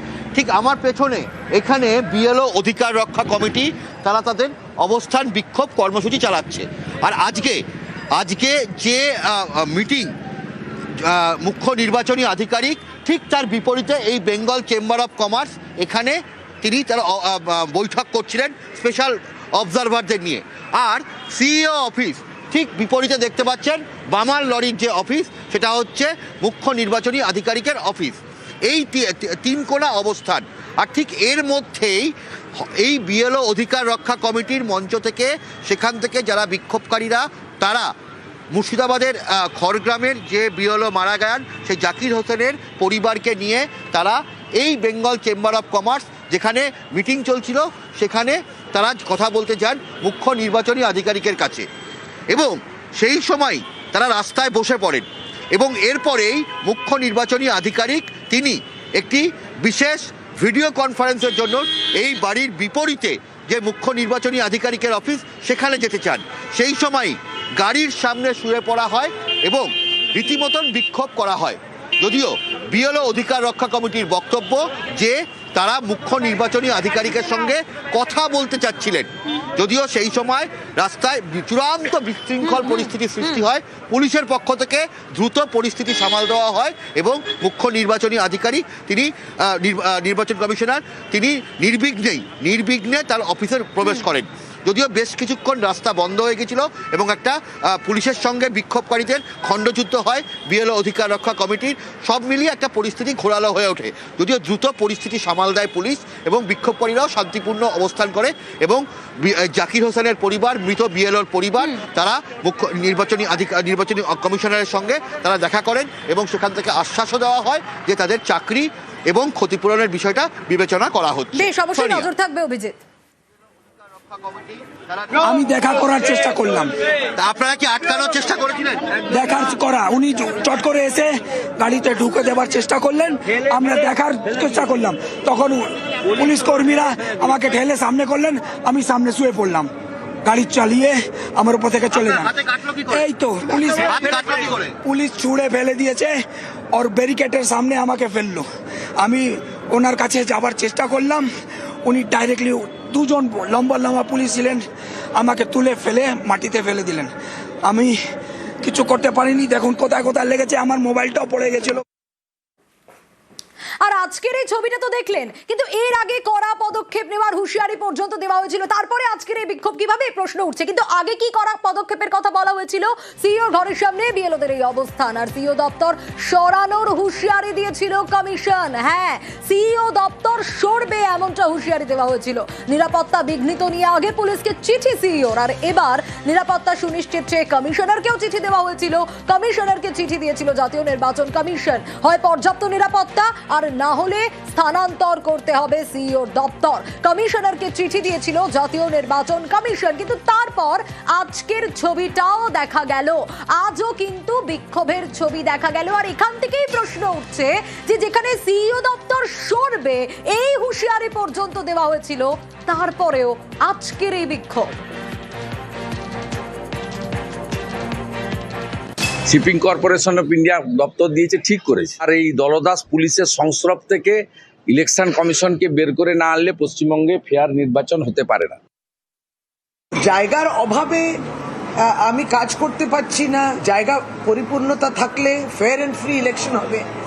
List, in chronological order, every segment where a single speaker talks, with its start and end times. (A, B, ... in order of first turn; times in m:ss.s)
0:00.3-0:07.6 A
0:08.1-0:10.1 A
0:11.0-0:32.1 A
0:32.8-0:37.9 A
0:38.5-0:51.6 A
0:52.3-2:02.1 A
2:01.3-2:02.8 B
2:05.2-2:06.7 C
2:07.2-2:08.9 A
2:09.1-2:19.7 C
2:20.2-2:24.2 C
2:21.9-2:23.0 A
2:23.7-2:24.7 A
2:24.8-2:28.5 C
2:29.0-2:31.3 C
2:31.8-2:37.1 C
2:37.6-2:37.9 C
2:38.6-2:41.8 C
2:43.8-3:34.8 B
3:39.3-3:48.6 D
3:50.0-3:51.2 E
3:51.8-3:56.9 E